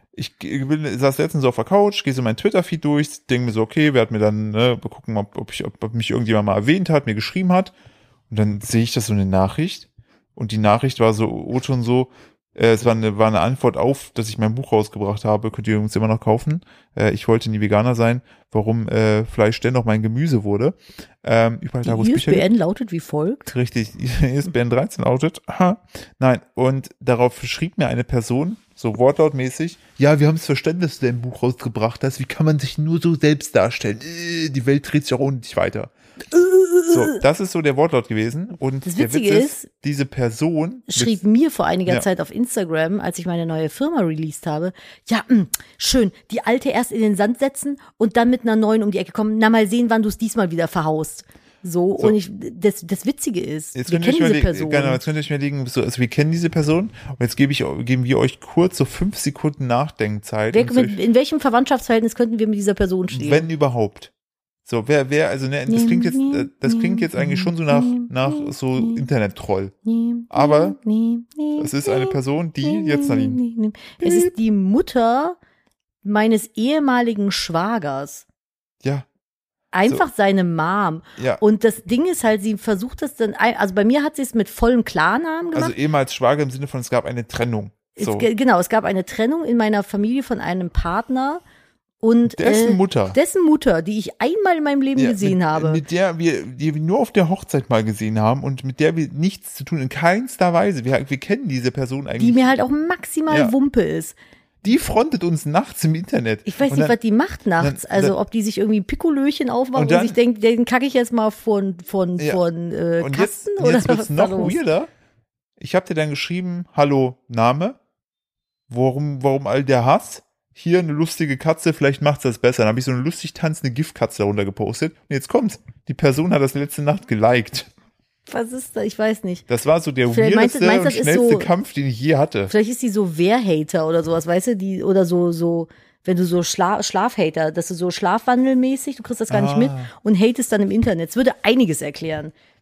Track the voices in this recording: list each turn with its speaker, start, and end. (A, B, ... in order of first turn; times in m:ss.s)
0:00.2-0:07.7 A
0:08.3-0:22.5 A
0:21.8-0:23.5 B
0:23.5-0:35.9 A
0:36.3-0:37.2 B
0:36.8-0:41.2 A
0:38.8-0:39.6 B
0:40.9-0:55.0 B
0:53.7-1:01.0 A
1:00.5-1:03.5 B
1:03.1-1:04.1 A
1:04.7-1:09.7 A
1:05.7-1:09.1 B
1:09.8-1:15.4 B
1:10.3-1:10.8 A
1:11.6-1:13.4 A
1:14.0-1:14.3 A
1:16.0-1:18.2 B
1:19.7-1:25.8 B
1:21.2-1:21.4 A
1:25.5-1:28.3 A
1:28.0-1:31.4 B
1:32.0-1:35.8 B
1:32.3-1:33.2 A
1:35.0-1:42.5 A
1:42.2-1:44.2 B
1:43.3-1:43.5 A
1:44.6-1:47.0 A
1:46.5-1:54.6 B
1:47.6-1:48.2 A
1:49.8-1:50.2 A
1:53.0-1:54.9 A
1:55.6-1:57.8 A
1:58.7-2:07.7 A
2:08.3-2:09.4 B
2:09.5-2:12.5 A
2:10.1-2:11.5 B
2:12.5-2:22.3 B
2:19.3-2:19.9 A